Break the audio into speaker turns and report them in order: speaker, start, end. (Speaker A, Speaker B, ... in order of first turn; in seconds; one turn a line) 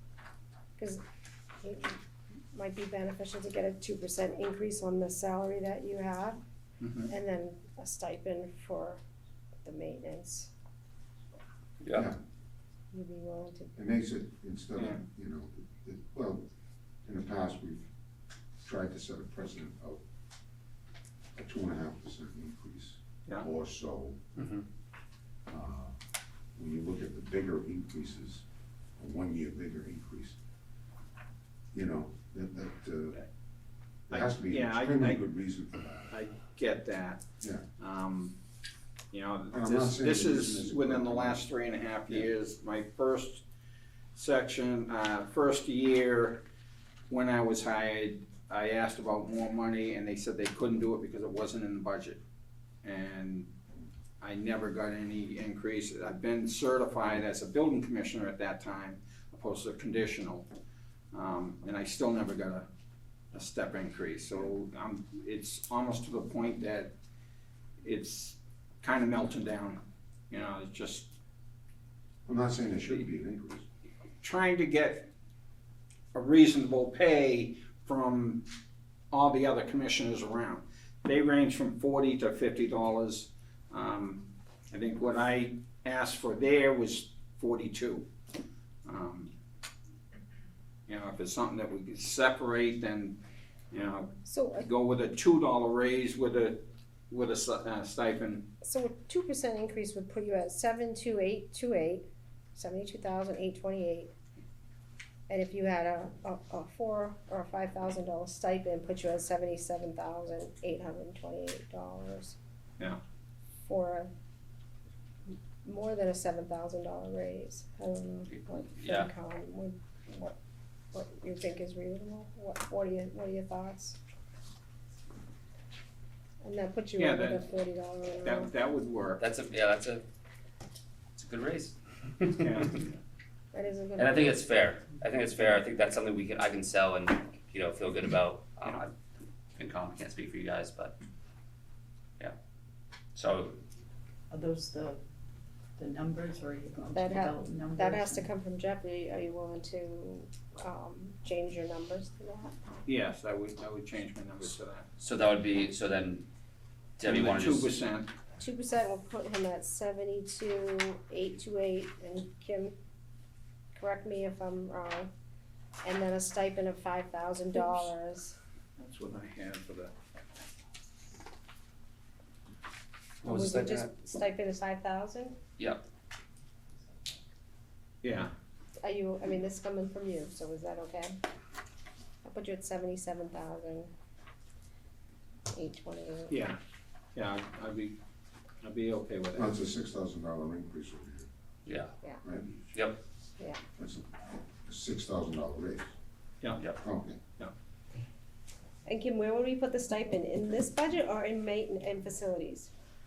Speaker A: 1.6-2.0
Speaker A: 2.5-6.4
Speaker B: 6.8-7.1
Speaker A: 7.1-9.0
Speaker A: 9.6-10.5
Speaker C: 11.8-12.1
Speaker A: 12.9-13.8
Speaker D: 13.8-16.4
Speaker B: 14.8-15.0
Speaker D: 17.0-17.9
Speaker D: 18.6-20.0
Speaker D: 21.4-24.2
Speaker C: 24.4-24.6
Speaker D: 25.5-25.9
Speaker D: 26.6-28.4
Speaker D: 29.0-30.4
Speaker D: 31.7-33.2
Speaker B: 34.1-35.2
Speaker D: 34.1-36.2
Speaker B: 36.1-37.2
Speaker B: 37.8-38.4
Speaker B: 39.1-43.4
Speaker D: 39.5-41.4
Speaker B: 44.1-46.4
Speaker B: 47.1-52.2
Speaker B: 52.8-53.5
Speaker B: 54.2-60.5
Speaker B: 61.1-62.7
Speaker B: 63.3-66.9
Speaker B: 67.8-71.1
Speaker D: 72.2-73.6
Speaker B: 74.2-75.1
Speaker B: 76.1-78.5
Speaker B: 79.1-88.0
Speaker B: 88.8-89.3
Speaker B: 90.9-93.2
Speaker B: 93.7-98.5
Speaker A: 94.3-94.7
Speaker A: 98.6-104.1
Speaker A: 105.3-112.3
Speaker A: 113.6-114.1
Speaker A: 115.6-120.3
Speaker C: 118.3-119.1
Speaker A: 120.9-124.0
Speaker A: 126.4-128.5
Speaker B: 127.0-127.4
Speaker B: 128.2-129.2
Speaker C: 129.2-130.0
Speaker C: 131.2-132.6
Speaker B: 132.3-132.9
Speaker A: 133.5-134.4
Speaker C: 134.0-138.9
Speaker C: 139.6-140.9
Speaker C: 143.1-143.6
Speaker E: 144.3-145.0
Speaker E: 145.8-148.3
Speaker A: 146.9-152.5
Speaker B: 152.9-154.9
Speaker C: 155.0-156.2
Speaker C: 157.0-157.7
Speaker B: 157.0-158.1
Speaker A: 158.4-162.7
Speaker A: 163.8-165.1
Speaker A: 165.8-168.3
Speaker B: 168.8-169.9
Speaker C: 173.2-173.9
Speaker A: 173.2-175.4
Speaker C: 175.6-175.8
Speaker B: 178.0-178.3
Speaker A: 178.8-181.2
Speaker A: 182.2-183.9
Speaker A: 185.5-186.3
Speaker B: 186.3-186.6
Speaker B: 187.1-187.9
Speaker B: 188.6-189.5
Speaker D: 189.3-191.3
Speaker C: 191.7-191.9
Speaker D: 192.2-192.5
Speaker C: 192.7-193.0
Speaker D: 193.8-195.9
Speaker D: 196.8-197.2
Speaker A: 198.8-202.7